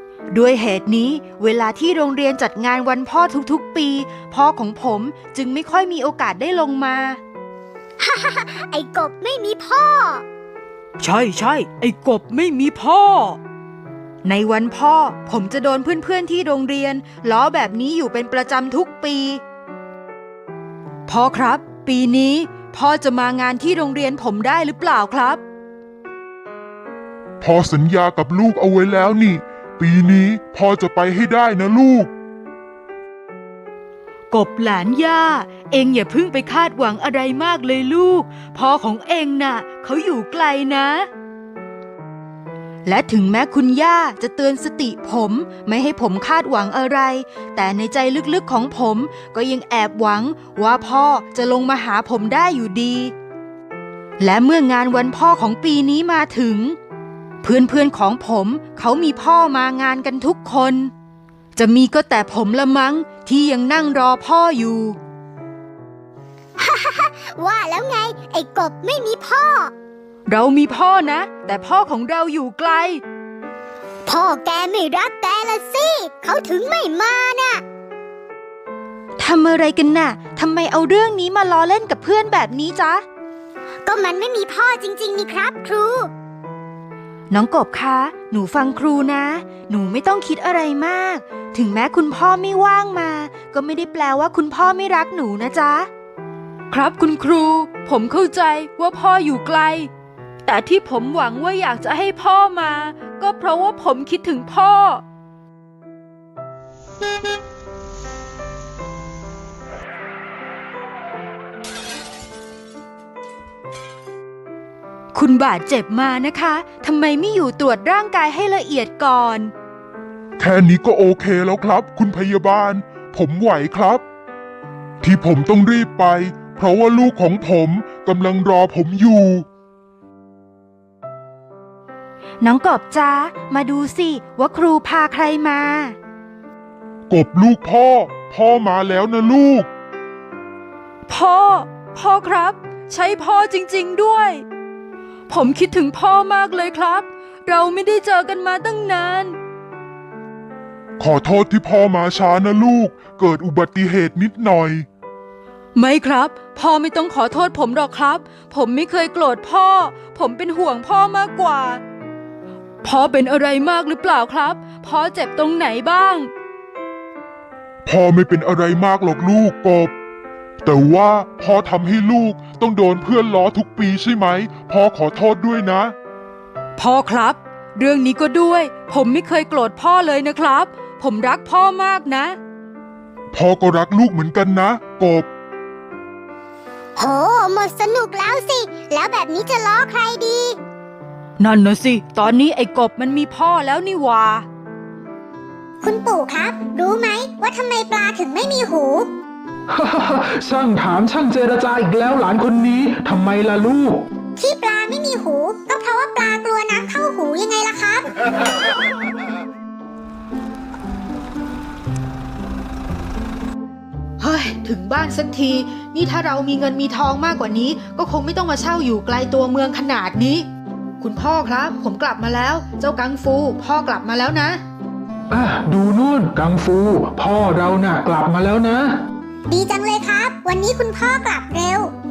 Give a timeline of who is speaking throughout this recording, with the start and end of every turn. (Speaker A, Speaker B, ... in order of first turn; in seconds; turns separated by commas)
Speaker A: 0.3-7.2, Speaker B: 8.0-10.2, Speaker A: 11.0-13.4, Speaker A: 14.2-19.4, Speaker A: 21.1-25.4, Speaker C: 27.4-32.1, Speaker A: 34.3-41.1, Speaker A: 42.9-53.1, Speaker A: 54.2-56.8, Speaker A: 57.4-60.9, Speaker A: 61.6-65.0, Speaker B: 66.6-69.7, Speaker A: 70.3-73.0, Speaker B: 74.1-77.6, Speaker A: 79.2-83.0, Speaker B: 83.8-86.1, Speaker A: 87.3-95.9, Speaker A: 96.7-99.9, Speaker A: 100.5-105.0, Speaker A: 115.1-119.5, Speaker C: 120.4-124.0, Speaker C: 125.0-129.5, Speaker A: 132.4-136.0, Speaker C: 137.1-139.7, Speaker A: 141.1-144.4, Speaker A: 145.3-149.4, Speaker C: 151.0-154.9, Speaker A: 155.8-161.8, Speaker A: 162.8-166.3, Speaker C: 167.8-169.9, Speaker C: 170.6-175.9, Speaker A: 176.8-182.4, Speaker C: 183.3-185.3, Speaker B: 187.0-190.6, Speaker A: 191.4-194.5, Speaker B: 195.8-199.1, Speaker D: 199.7-204.1, Speaker B: 204.4-208.1, Speaker A: 214.2-220.5, Speaker A: 221.0-224.6, Speaker D: 225.3-229.0, Speaker B: 229.5-231.9